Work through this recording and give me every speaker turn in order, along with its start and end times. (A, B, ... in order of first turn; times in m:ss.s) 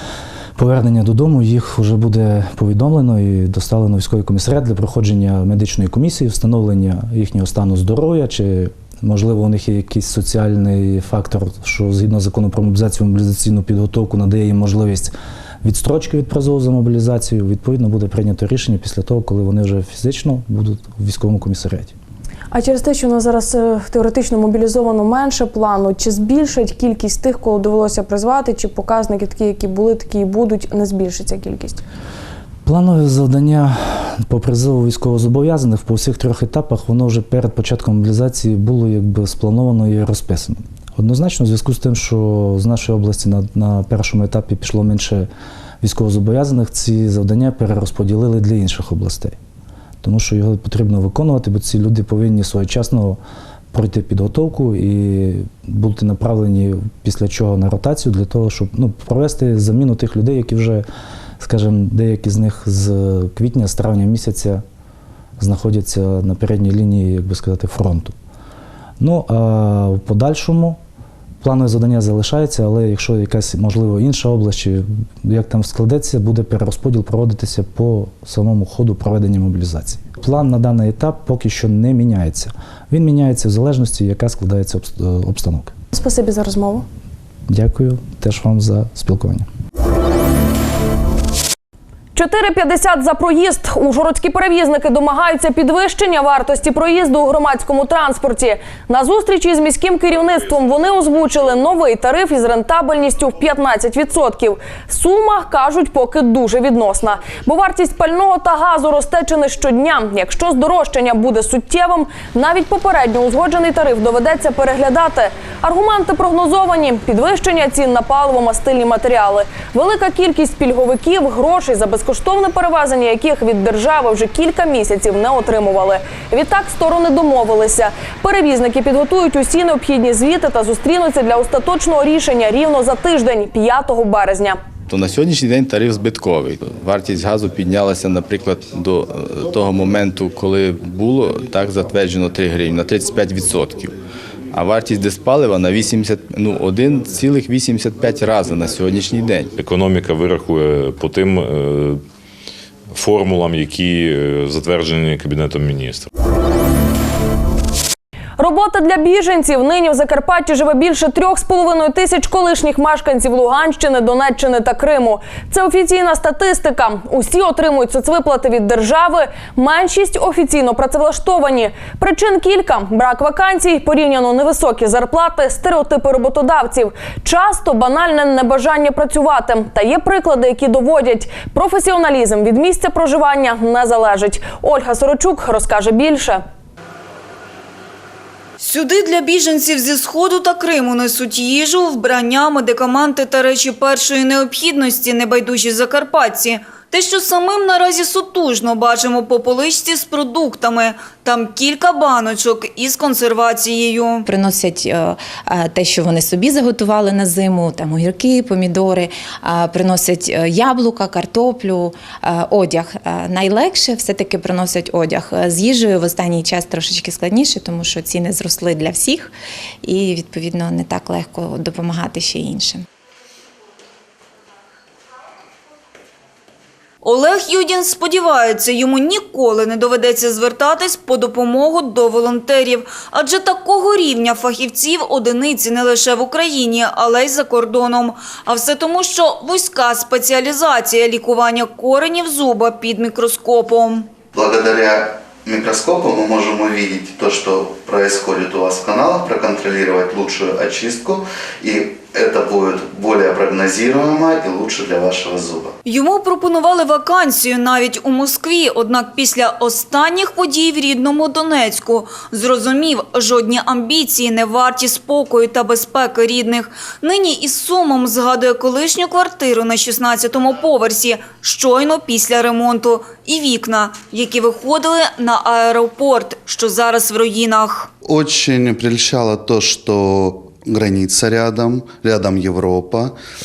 0:00.6-0:21.9 A
0:22.5-0:31.8 B
0:32.7-0:45.3 A
0:45.8-0:49.4 A
0:50.0-0:53.2 A
0:53.7-1:00.9 A
1:01.4-1:04.6 A
1:05.4-1:08.2 A
1:09.0-1:10.8 A
1:11.4-1:25.7 A
1:25.9-1:26.9 B
1:27.5-1:29.5 A
1:32.2-2:14.6 B
2:14.9-2:24.0 C
2:24.5-2:29.5 C
2:29.5-2:32.0 D
2:32.9-2:36.1 D
2:38.4-3:06.4 B
3:08.6-3:24.2 E
3:24.3-3:39.3 F
3:39.8-3:42.8 F
3:47.0-4:04.1 E
4:04.3-4:15.7 G
4:15.8-4:37.9 E
4:38.0-4:43.2 G